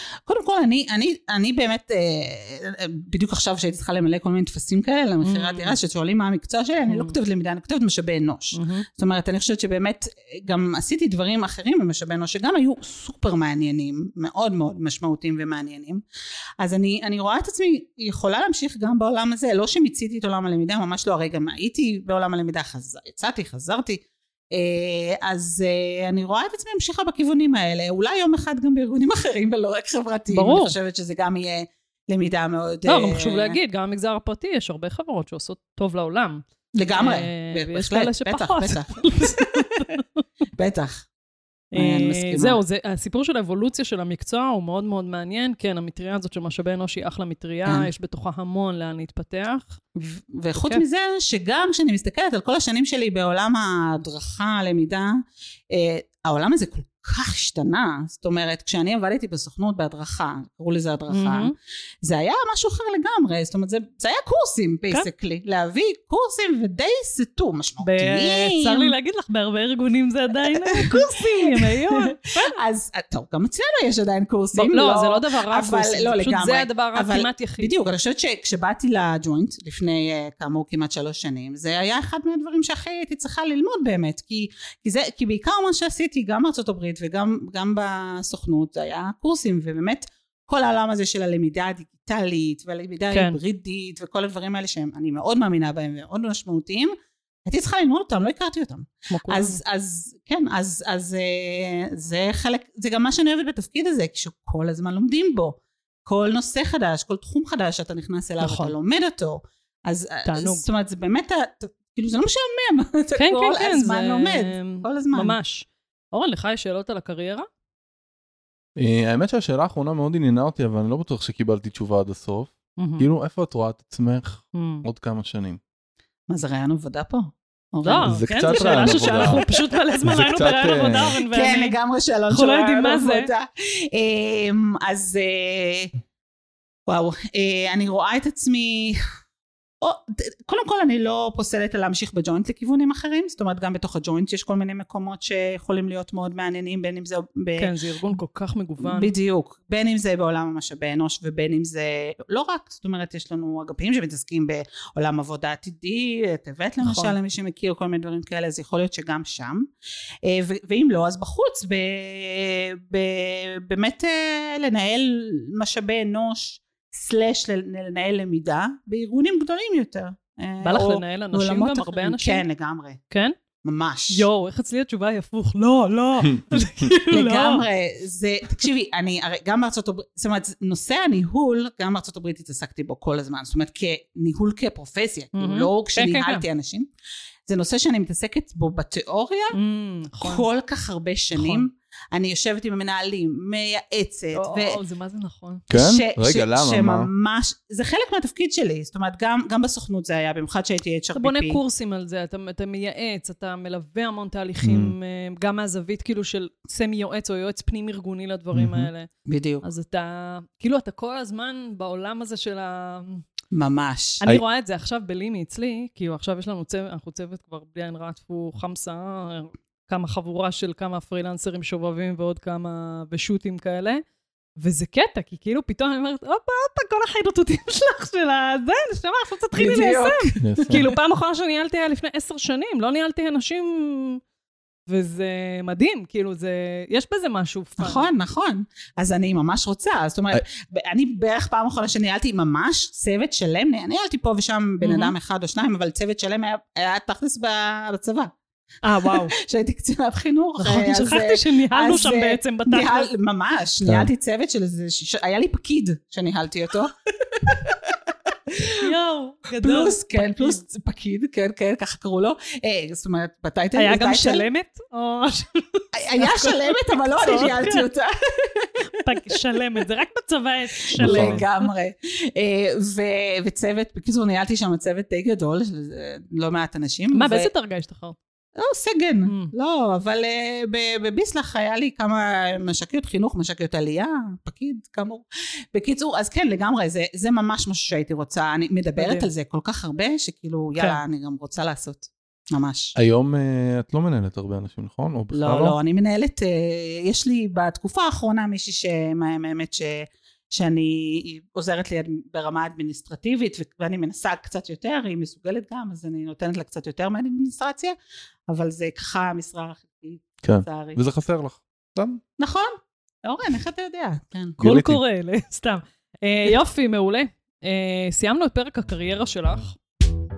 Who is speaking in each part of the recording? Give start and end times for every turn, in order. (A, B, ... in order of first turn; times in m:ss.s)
0:00.3-0:16.0 A
0:05.2-0:05.8 B
0:06.9-0:07.1 B
0:08.5-0:08.9 B
0:16.6-0:33.6 A
0:30.3-0:30.7 B
0:32.9-0:36.4 B
0:36.8-0:39.6 A
0:37.0-0:40.2 B
0:40.6-0:41.1 A
0:41.7-0:49.8 B
0:41.8-0:42.6 A
0:50.0-0:55.2 A
0:50.6-0:50.8 B
0:55.7-1:01.5 A
1:01.1-1:01.5 B
1:02.0-1:09.0 A
1:07.8-1:12.5 B
1:10.5-1:36.9 A
1:14.6-1:17.7 B
1:33.1-1:33.4 B
1:37.4-1:55.4 A
1:39.1-1:39.6 B
1:48.4-1:48.7 B
1:50.2-1:50.7 B
1:53.2-1:57.5 B
1:58.8-2:05.6 C
2:02.8-2:03.1 B
2:04.5-2:04.9 B
2:06.3-2:09.6 A
2:07.8-2:11.8 B
2:08.0-2:09.4 C
2:10.1-2:11.2 C
2:11.3-2:16.0 A
2:12.3-2:13.3 B
2:16.9-2:19.0 A
2:19.8-2:27.7 A
2:27.6-2:29.1 B
2:28.8-2:39.7 A
2:36.8-2:37.1 B
2:40.2-2:53.0 A
2:50.6-2:52.4 B
2:53.1-2:53.4 B
2:53.6-2:54.3 A
2:54.1-2:57.6 B
2:57.1-3:06.9 A
3:05.4-3:06.4 B
3:07.5-3:09.6 A
3:09.5-3:10.4 B
3:10.2-3:14.8 A
3:11.3-3:11.7 B
3:14.3-3:15.7 B
3:15.7-3:17.1 C
3:15.7-3:21.6 A
3:21.1-3:29.1 B
3:24.6-3:24.9 C
3:28.5-3:28.9 C
3:29.3-3:29.6 A
3:29.6-3:33.2 B
3:33.5-3:34.2 A
3:34.2-3:44.0 B
3:44.6-3:54.2 B
3:49.5-3:50.5 A
3:50.4-3:50.9 C
3:54.9-3:58.1 B
3:57.8-4:08.3 A
4:04.8-4:05.1 B
4:08.8-4:09.3 B
4:09.0-4:18.9 A
4:10.6-4:13.1 B
4:13.8-4:14.1 C
4:18.8-4:20.6 B
4:19.6-4:24.5 A
4:23.8-4:27.9 B
4:26.0-4:28.8 A
4:29.0-4:31.7 B
4:30.9-4:37.5 A
4:31.0-4:31.4 C
4:37.1-4:38.2 B
4:38.6-4:53.0 A
4:39.2-4:39.5 B
4:49.0-4:49.3 B
4:53.0-4:55.8 C
4:55.3-5:07.9 A
5:08.5-5:11.0 A
5:10.4-5:12.2 C
5:12.4-5:14.6 A
5:14.6-5:15.0 C
5:14.6-5:19.8 B